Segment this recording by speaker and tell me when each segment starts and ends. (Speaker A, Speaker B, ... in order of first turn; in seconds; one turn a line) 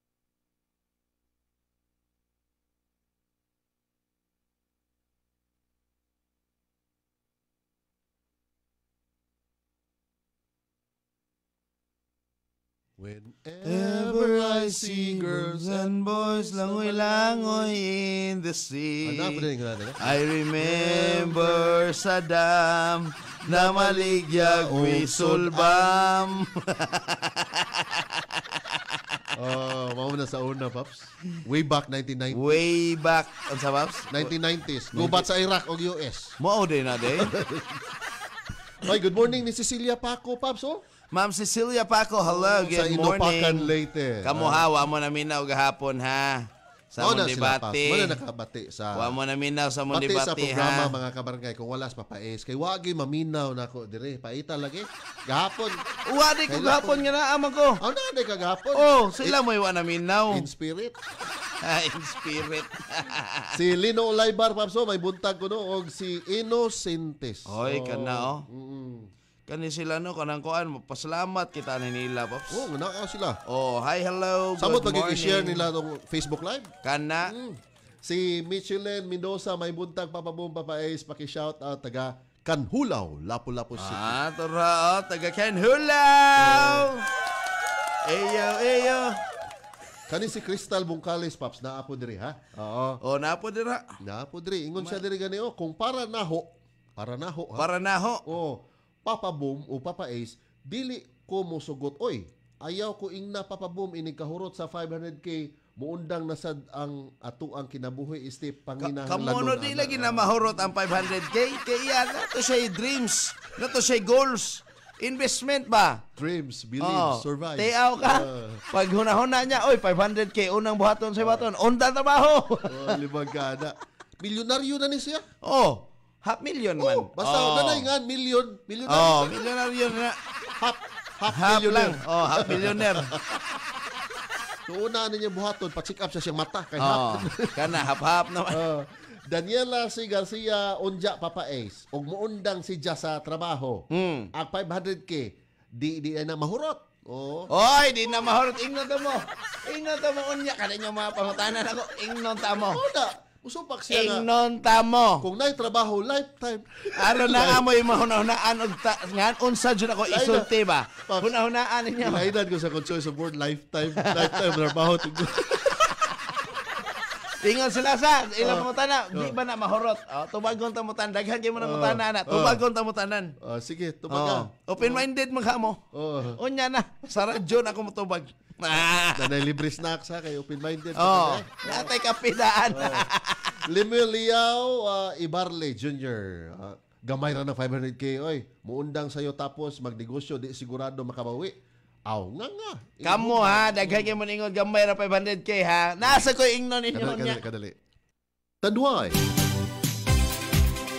Speaker A: 13.0-17.7
Speaker B: 13.6-19.4
Speaker A: 19.0-21.8
Speaker B: 20.0-28.8
Speaker A: 23.5-26.1
Speaker A: 29.4-32.6
Speaker B: 32.3-34.3
Speaker A: 34.1-36.4
Speaker B: 34.9-35.2
Speaker B: 36.4-37.3
Speaker A: 37.0-37.8
Speaker A: 38.8-40.8
Speaker B: 41.1-43.7
Speaker A: 42.2-44.6
Speaker B: 44.2-48.2
Speaker A: 47.0-49.1
Speaker B: 48.9-50.9
Speaker A: 49.9-55.8
Speaker B: 56.1-57.8
Speaker A: 56.5-57.0
Speaker A: 57.8-59.4
Speaker B: 58.8-60.5
Speaker A: 60.3-61.0
Speaker B: 61.6-63.5
Speaker A: 63.5-69.1
Speaker B: 67.5-68.5
Speaker B: 69.5-72.7
Speaker A: 72.5-73.4
Speaker B: 73.5-75.6
Speaker A: 74.6-76.7
Speaker B: 76.8-77.3
Speaker A: 77.2-84.2
Speaker B: 83.8-87.0
Speaker A: 86.4-86.9
Speaker B: 88.0-89.2
Speaker A: 90.1-93.0
Speaker B: 93.0-93.8
Speaker A: 94.0-97.7
Speaker B: 97.6-98.2
Speaker A: 98.2-110.4
Speaker B: 108.8-116.0
Speaker A: 116.2-118.6
Speaker B: 116.8-123.0
Speaker A: 121.2-121.5
Speaker A: 122.7-125.3
Speaker B: 125.4-127.9
Speaker A: 126.8-129.5
Speaker B: 128.9-130.2
Speaker A: 130.6-133.4
Speaker B: 131.3-133.1
Speaker A: 134.7-137.8
Speaker B: 136.8-138.6
Speaker A: 138.5-147.5
Speaker B: 143.9-144.3
Speaker B: 147.5-152.8
Speaker A: 152.6-154.2
Speaker B: 153.9-155.2
Speaker A: 155.2-157.7
Speaker B: 157.0-162.3
Speaker A: 160.1-161.3
Speaker A: 162.0-165.9
Speaker B: 164.0-164.7
Speaker B: 167.4-173.3
Speaker A: 168.4-169.4
Speaker A: 171.6-172.6
Speaker A: 173.4-175.1
Speaker B: 174.1-175.8
Speaker A: 175.9-176.4
Speaker B: 176.4-179.4
Speaker A: 177.1-177.4
Speaker A: 179.1-181.9
Speaker B: 181.0-183.5
Speaker A: 182.7-183.1
Speaker A: 183.6-191.5
Speaker A: 192.1-194.1
Speaker B: 193.0-197.4
Speaker A: 196.9-197.8
Speaker A: 198.6-199.2